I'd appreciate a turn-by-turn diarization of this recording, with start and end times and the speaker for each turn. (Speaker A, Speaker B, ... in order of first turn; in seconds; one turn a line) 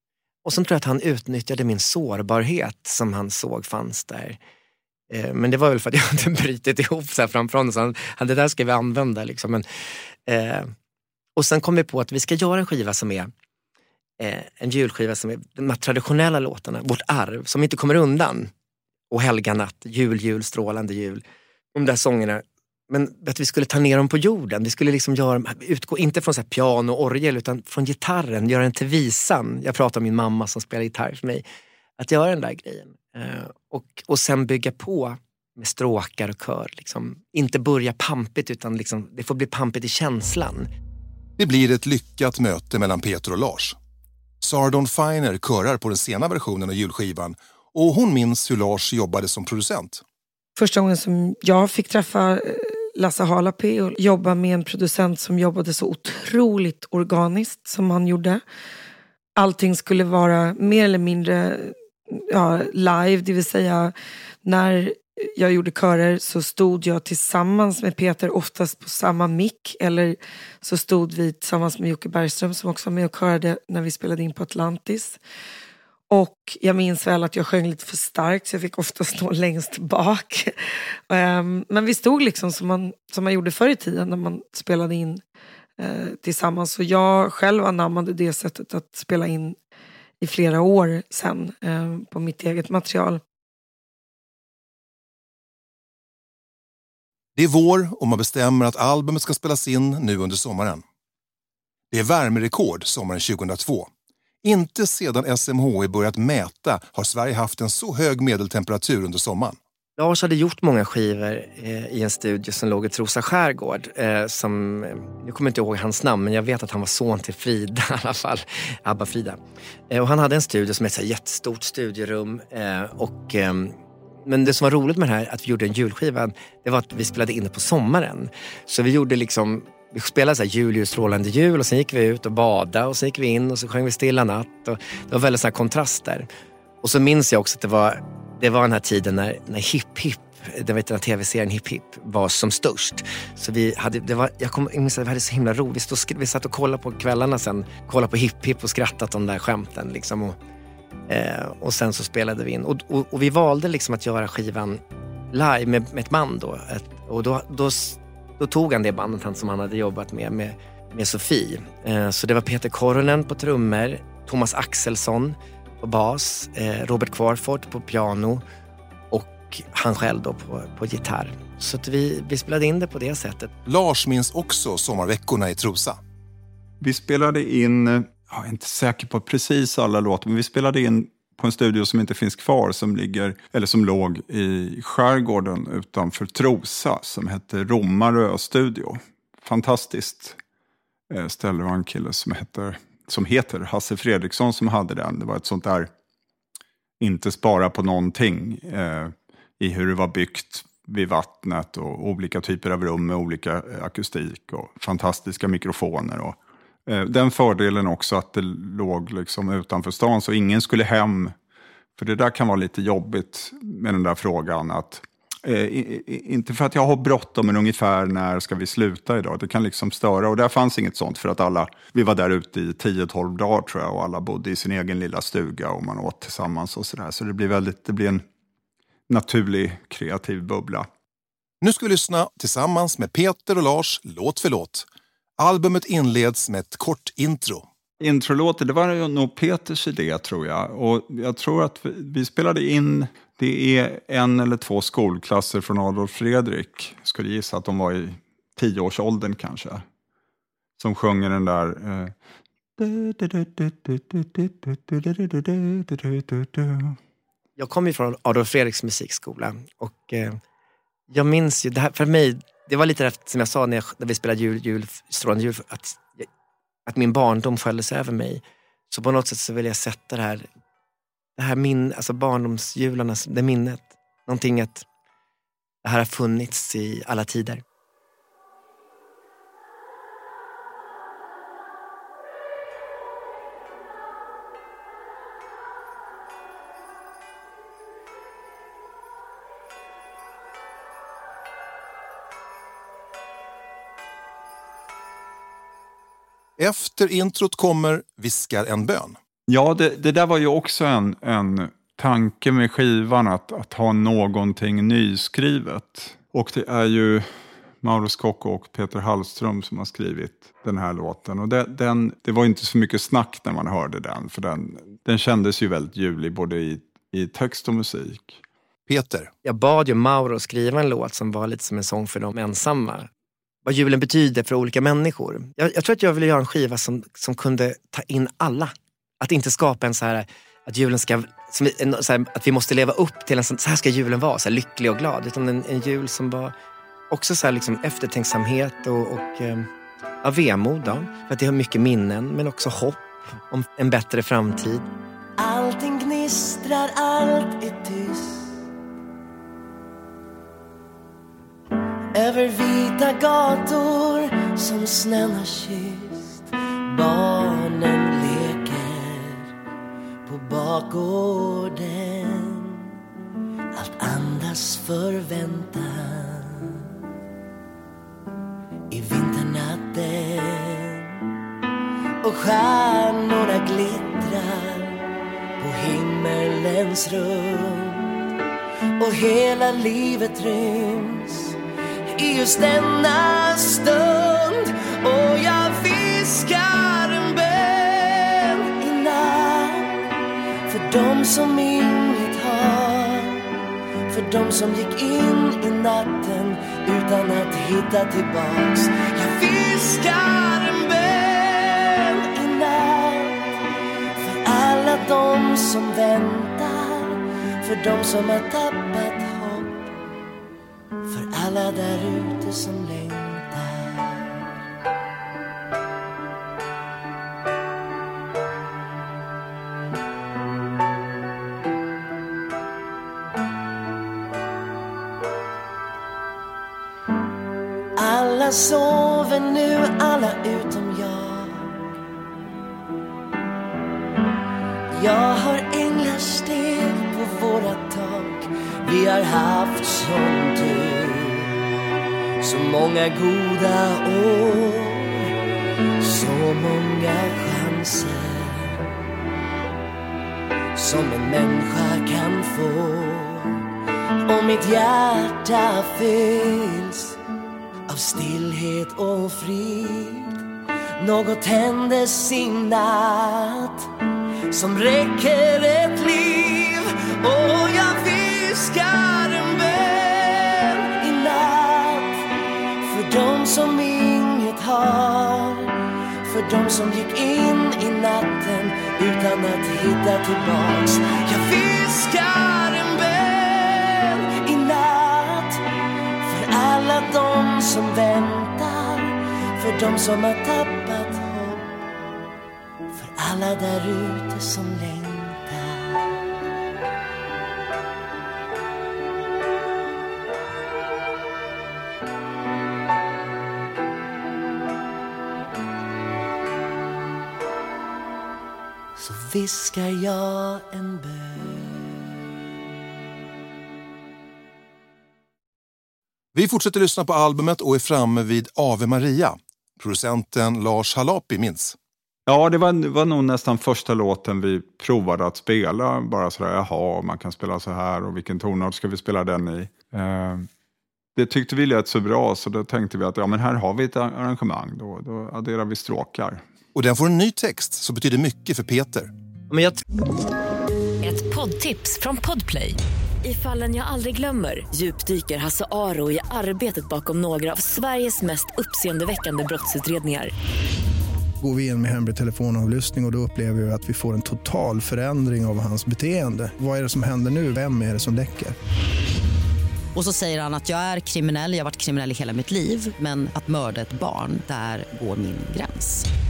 Speaker A: 0.5-4.4
Speaker A: 5.1-9.6
Speaker A: 10.3-10.7
Speaker A: 11.4-13.3
Speaker A: 14.2-18.5
Speaker A: 19.1-21.2
Speaker A: 21.8-31.4
Speaker A: 32.0-40.7
Speaker B: 41.4-43.8
Speaker B: 44.4-50.0
Speaker C: 50.6-58.4
Speaker C: 59.4-61.8
Speaker C: 62.3-75.2
Speaker C: 76.1-80.5
Speaker C: 81.1-85.2
Speaker C: 85.8-89.6
Speaker C: 90.2-93.2
Speaker B: 97.4-100.8
Speaker B: 101.9-103.9
Speaker B: 104.4-109.6
Speaker A: 110.0-119.4
Speaker A: 119.9-136.3
Speaker A: 136.8-150.4
Speaker A: 151.1-154.8
Speaker A: 155.3-168.4
Speaker A: 169.1-173.5
Speaker B: 173.7-176.0
Speaker D: 176.8-190.4
Speaker D: 191.1-195.9
Speaker D: 197.0-211.3
Speaker D: 212.0-228.2
Speaker D: 229.1-230.9
Speaker B: 231.6-234.9
Speaker B: 235.4-237.7
Speaker D: 238.0-249.8
Speaker D: 250.8-252.2
Speaker D: 252.8-257.0
Speaker A: 257.6-260.4
Speaker A: 261.1-266.3
Speaker A: 266.9-270.5
Speaker A: 271.4-274.9
Speaker A: 275.8-277.6
Speaker B: 296.6-299.2
Speaker D: 299.5-307.3
Speaker D: 307.8-318.4
Speaker B: 318.9-319.3
Speaker A: 319.4-323.1
Speaker A: 323.6-336.5
Speaker A: 337.1-339.7
Speaker A: 340.2-344.9
Speaker E: 345.4-348.6
Speaker E: 352.1-359.5
Speaker E: 360.3-362.9
Speaker E: 363.8-366.9
Speaker E: 368.9-371.2
Speaker E: 372.2-375.1
Speaker E: 375.6-378.1
Speaker E: 379.0-381.6
Speaker E: 382.1-390.1
Speaker E: 390.7-393.5
Speaker E: 394.1-403.6
Speaker E: 404.2-409.9
Speaker E: 411.1-414.4
Speaker E: 428.0-431.8
Speaker E: 434.9-441.5
Speaker E: 442.4-445.3
Speaker E: 446.0-448.9
Speaker E: 450.8-453.6
Speaker E: 454.3-457.2
Speaker E: 457.9-460.4
Speaker E: 461.0-463.9
Speaker E: 464.5-472.2
Speaker E: 472.8-485.6
Speaker E: 486.2-491.8
Speaker E: 492.9-496.1
Speaker E: 509.0-511.9
Speaker B: 516.3-521.8
Speaker D: 522.3-530.5
Speaker D: 531.1-536.4
Speaker B: 536.7-539.1
Speaker A: 539.5-539.8
Speaker F: 541.0-550.3
Speaker G: 551.4-558.6
Speaker H: 559.9-566.1